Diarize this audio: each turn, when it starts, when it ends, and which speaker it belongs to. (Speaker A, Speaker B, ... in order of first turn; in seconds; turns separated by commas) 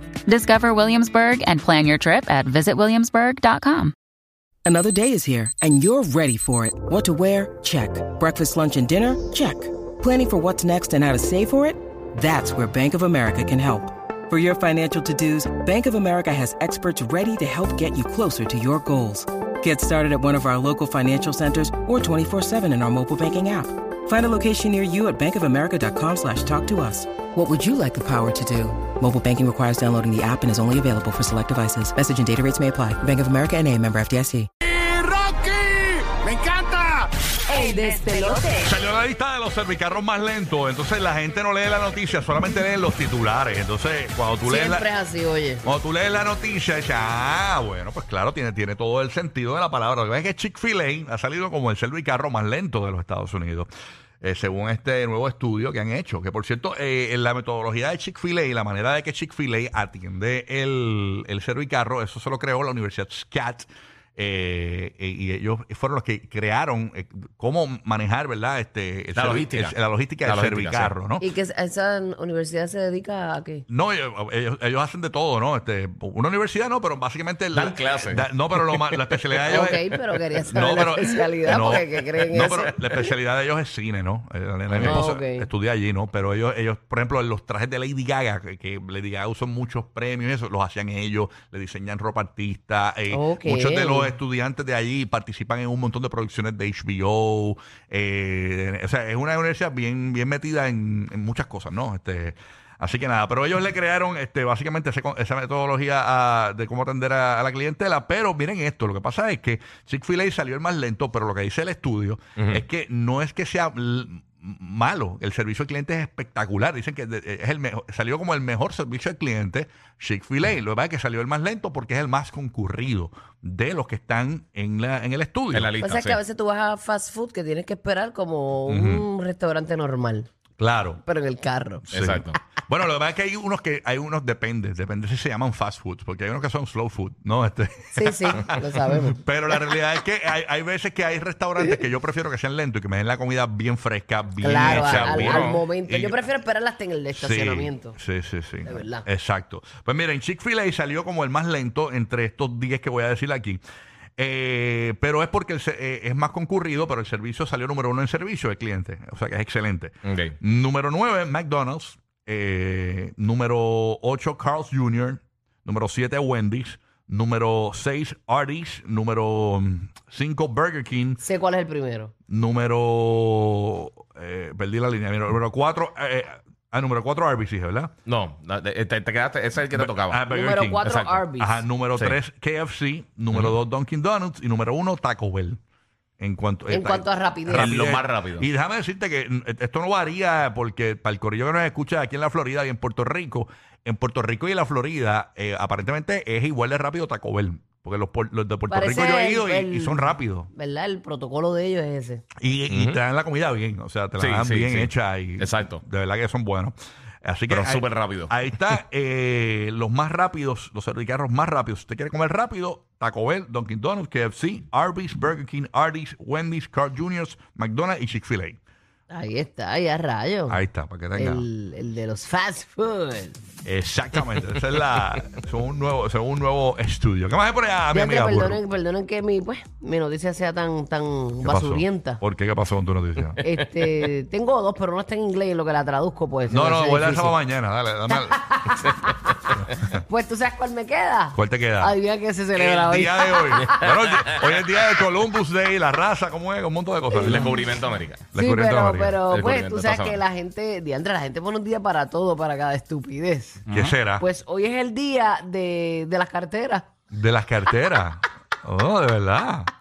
Speaker A: 0.3-3.9, Speaker B: 4.6-34.5, Speaker C: 34.7-37.0, Speaker D: 37.5-38.7, Speaker E: 38.6-44.9, Speaker D: 44.4-45.6, Speaker E: 45.6-53.7, Speaker E: 54.2-71.3, Speaker F: 69.1-70.9, Speaker D: 71.2-73.7, Speaker E: 73.7-125.7, Speaker F: 77.5-79.8, Speaker D: 79.5-83.1, Speaker F: 84.7-85.0, Speaker D: 84.8-85.5, Speaker D: 93.1-94.1, Speaker F: 112.3-112.6, Speaker F: 125.5-126.2, Speaker D: 125.8-130.3, Speaker E: 128.7-129.1, Speaker E: 130.6-131.0, Speaker D: 131.0-131.9, Speaker E: 131.9-146.2, Speaker F: 131.9-132.4, Speaker D: 137.9-139.3, Speaker D: 144.4-148.0, Speaker F: 144.6-145.6, Speaker E: 147.1-153.6, Speaker D: 148.6-149.1, Speaker E: 154.2-171.2, Speaker F: 160.0-160.3, Speaker D: 171.2-172.1, Speaker E: 172.3-177.9, Speaker F: 178.1-180.2, Speaker E: 179.7-185.6, Speaker D: 180.3-181.6, Speaker F: 180.8-181.2, Speaker E: 186.2-200.5, Speaker D: 186.7-187.7, Speaker F: 187.5-188.5, Speaker D: 198.7-202.2, Speaker E: 202.4-218.6, Speaker F: 202.7-203.0, Speaker F: 204.2-205.8, Speaker F: 207.5-208.4, Speaker D: 219.1-220.6, Speaker E: 220.5-221.4, Speaker D: 221.1-223.4, Speaker E: 223.6-228.6, Speaker D: 227.9-232.2, Speaker E: 231.4-233.4, Speaker F: 233.2-234.1, Speaker D: 233.4-237.4, Speaker E: 236.5-238.8, Speaker D: 238.1-243.8, Speaker E: 241.3-241.9, Speaker F: 242.6-242.9, Speaker E: 242.6-247.6, Speaker F: 243.8-244.3, Speaker D: 247.1-247.5, Speaker F: 247.2-248.3, Speaker E: 248.3-249.2, Speaker D: 248.3-253.6, Speaker F: 249.3-250.2, Speaker F: 253.7-253.9, Speaker E: 253.7-254.2, Speaker D: 254.2-256.9, Speaker E: 257.1-259.7